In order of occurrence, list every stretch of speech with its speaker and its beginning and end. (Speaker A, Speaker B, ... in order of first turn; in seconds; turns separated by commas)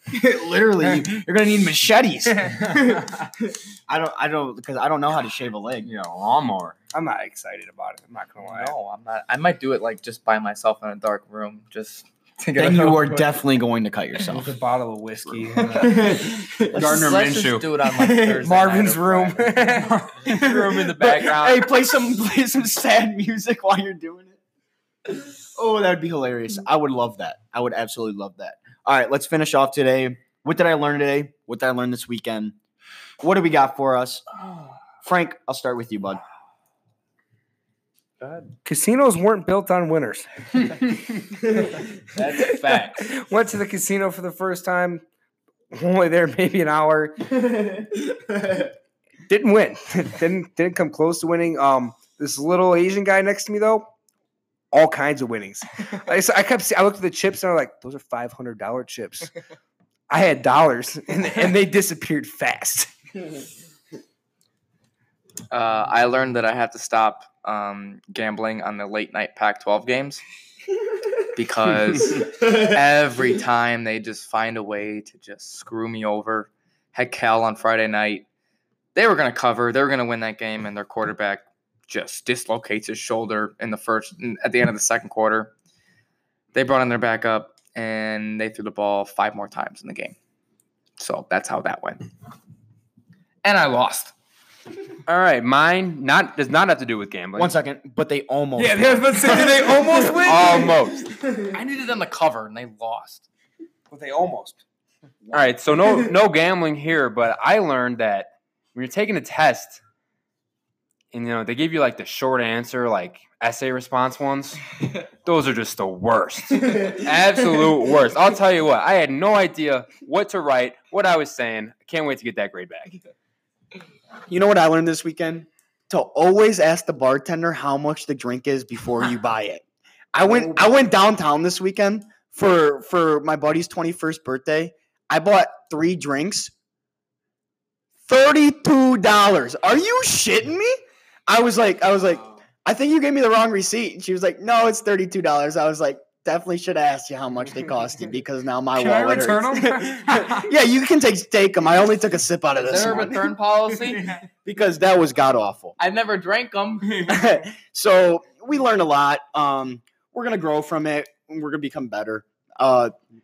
Speaker A: 0.1-5.9, Speaker B: 5.8-6.8, Speaker C: 6.9-8.7, Speaker D: 8.4-13.3, Speaker A: 12.6-14.5, Speaker C: 14.3-16.3, Speaker A: 15.2-17.0, Speaker B: 16.7-17.7, Speaker D: 16.7-19.9, Speaker A: 18.0-18.4, Speaker C: 18.1-20.3, Speaker B: 20.1-21.7, Speaker A: 20.3-24.4, Speaker A: 25.1-32.5, Speaker A: 33.2-34.2, Speaker A: 35.0-36.2, Speaker C: 38.6-40.8, Speaker C: 41.3-41.8, Speaker B: 42.0-43.2, Speaker C: 42.4-45.0, Speaker C: 45.7-47.9, Speaker C: 49.2-53.9, Speaker C: 54.7-59.3, Speaker C: 60.1-62.9, Speaker D: 65.5-70.2, Speaker D: 71.2-78.2, Speaker D: 78.9-85.5, Speaker D: 86.5-90.2, Speaker D: 91.0-92.0, Speaker D: 93.4-94.1, Speaker B: 95.1-97.5, Speaker A: 97.3-100.0, Speaker C: 98.6-100.9, Speaker B: 100.2-101.0, Speaker D: 101.4-103.2, Speaker C: 103.9-104.6, Speaker B: 105.3-109.8, Speaker B: 111.1-123.0, Speaker A: 124.3-136.5, Speaker A: 138.1-153.3, Speaker C: 148.7-150.5, Speaker D: 152.6-154.1, Speaker A: 154.4-155.7, Speaker D: 155.8-157.2, Speaker A: 157.0-162.9